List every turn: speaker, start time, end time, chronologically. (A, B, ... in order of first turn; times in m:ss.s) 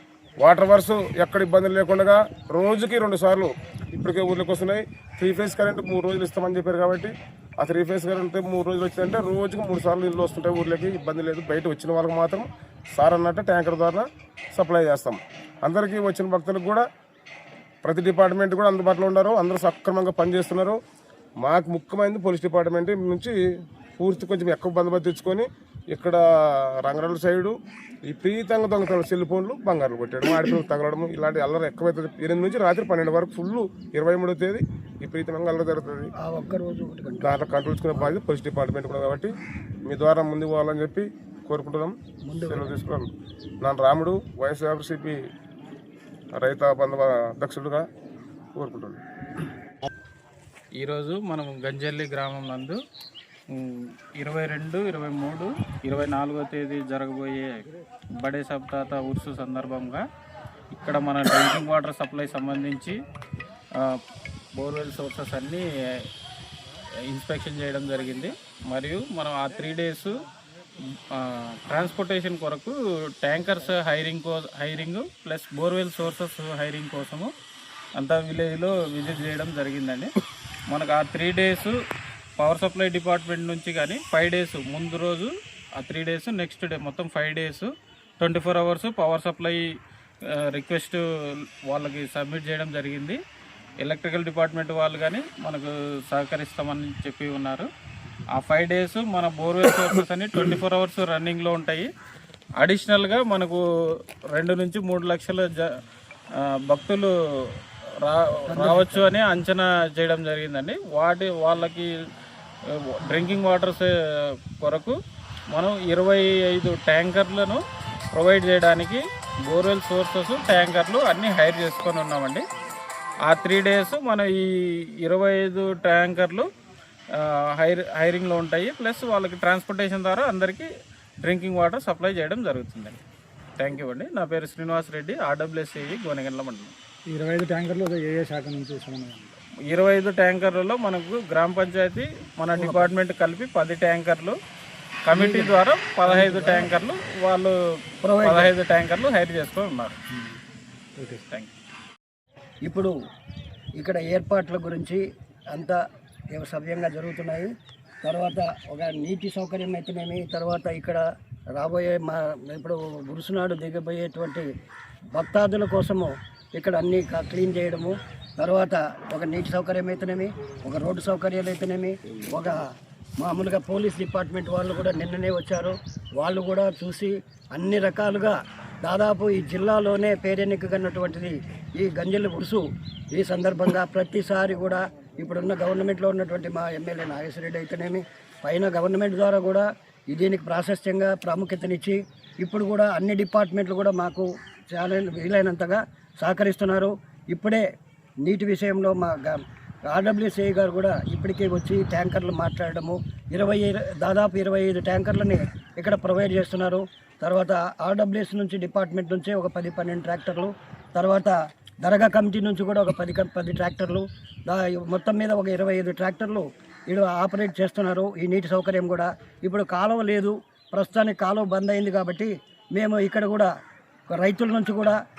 0:00.4-0:16.8 A
0:17.8-0:20.8 A
0:21.4-0:23.3 A
0:24.0-0:26.2 A
0:26.8-0:27.5 A
0:28.1-0:36.1 A
0:36.2-0:37.4 B
0:37.2-0:39.3 A
0:39.9-0:43.1 A
0:42.2-0:42.8 B
0:43.6-0:45.2 A
0:46.3-0:47.8 A
0:48.6-0:49.0 A
0:50.8-0:52.8 C
0:53.5-1:00.0 C
1:00.7-1:03.0 C
1:04.6-1:05.6 C
1:07.1-1:10.1 C
1:11.1-1:17.3 C
1:18.0-1:20.1 C
1:20.7-1:21.8 C
1:22.4-1:29.6 C
1:30.4-1:31.0 C
1:31.7-1:33.2 C
1:33.8-1:37.7 C
1:38.4-1:41.9 C
1:42.6-1:43.6 C
1:44.3-1:45.6 C
1:46.7-1:47.1 C
1:48.0-1:51.9 C
1:48.5-1:49.1 B
1:52.7-1:53.9 C
1:54.6-1:55.0 C
1:55.5-1:57.6 C
1:58.1-2:02.4 C
2:03.3-2:06.5 C
2:07.1-2:10.7 C
2:11.2-2:13.0 C
2:13.6-2:16.7 C
2:17.1-2:19.4 D
2:19.7-2:24.4 C
2:25.1-2:27.5 C
2:25.1-2:26.7 B
2:28.0-2:28.5 B
2:28.2-2:30.0 C
2:30.1-2:30.4 D
2:31.0-2:31.2 D
2:32.6-2:32.9 B
2:33.8-2:35.0 B
2:35.5-2:35.8 B
2:36.3-2:37.5 B
2:38.0-2:41.0 B
2:41.6-2:44.5 B
2:45.2-2:52.7 B
2:53.2-3:17.6 B
3:18.2-3:43.5 B
3:44.1-3:45.0 B